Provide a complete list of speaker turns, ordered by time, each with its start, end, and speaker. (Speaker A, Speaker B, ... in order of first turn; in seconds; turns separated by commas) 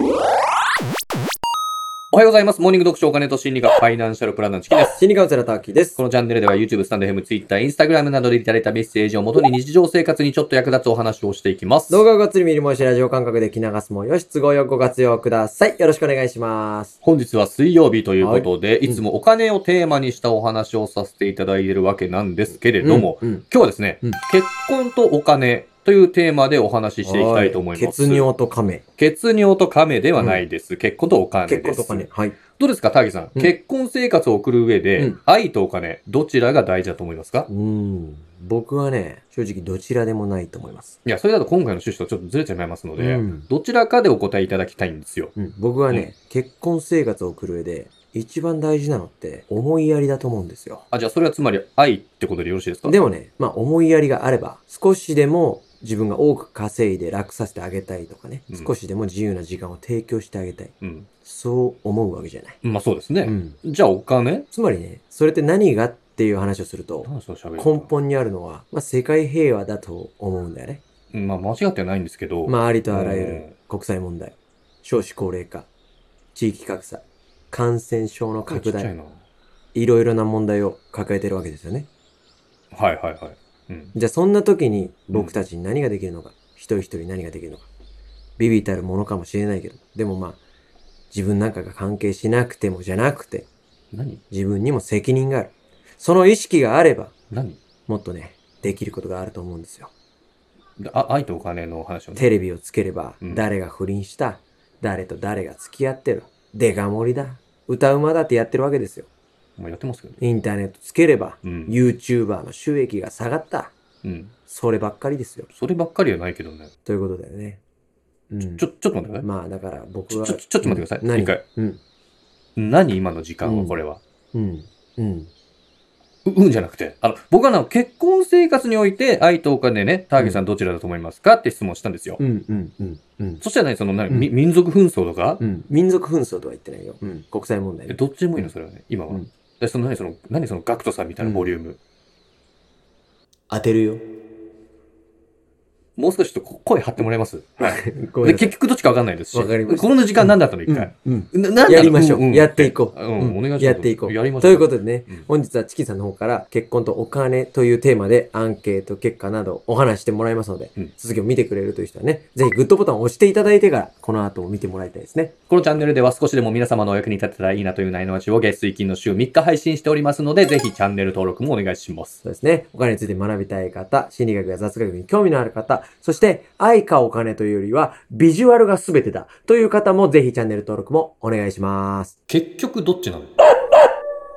Speaker A: 2.1-5.0, Speaker B: 5.0-6.0, Speaker A: 6.0-12.0, Speaker B: 11.9-17.0, Speaker A: 17.0-28.3, Speaker B: 18.2-19.0, Speaker B: 22.8-23.4, Speaker B: 27.0-28.8, Speaker A: 29.0-37.5, Speaker B: 31.5-32.4, Speaker B: 37.5-41.0, Speaker A: 41.0-45.3, Speaker B: 43.0-43.5, Speaker B: 45.4-50.9, Speaker A: 50.9-53.0, Speaker B: 52.9-60.7, Speaker A: 60.8-61.1, Speaker B: 61.2-62.6, Speaker A: 62.6-64.5, Speaker B: 63.2-63.6, Speaker B: 64.5-70.8, Speaker A: 67.0-67.9, Speaker A: 71.1-73.5, Speaker B: 72.5-75.7, Speaker B: 76.3-78.9, Speaker A: 78.5-79.2, Speaker B: 79.7-81.9, Speaker A: 82.7-83.9, Speaker B: 84.0-87.7, Speaker B: 88.4-90.4, Speaker B: 91.1-93.5, Speaker A: 93.9-94.2, Speaker B: 94.3-97.1, Speaker A: 97.3-97.6, Speaker B: 97.9-99.9, Speaker A: 100.8-102.3, Speaker B: 102.2-109.1, Speaker A: 109.6-110.2, Speaker B: 110.2-113.7, Speaker A: 111.4-111.8, Speaker A: 114.0-114.3, Speaker B: 114.5-115.5, Speaker A: 115.5-116.7, Speaker B: 116.9-117.6, Speaker B: 118.3-118.7, Speaker A: 118.6-119.3, Speaker B: 119.2-121.8, Speaker A: 120.1-121.4, Speaker A: 122.6-124.0, Speaker B: 123.4-123.8, Speaker B: 124.3-125.3, Speaker A: 126.3-132.2, Speaker B: 132.2-133.4, Speaker A: 133.4-135.4, Speaker B: 135.4-138.5, Speaker A: 137.9-141.8, Speaker B: 141.2-141.5, Speaker B: 143.5-144.0, Speaker A: 146.0-155.3, Speaker B: 147.6-148.5, Speaker B: 149.3-165.3, Speaker A: 165.5-172.2, Speaker B: 172.2-182.2, Speaker A: 182.3-183.3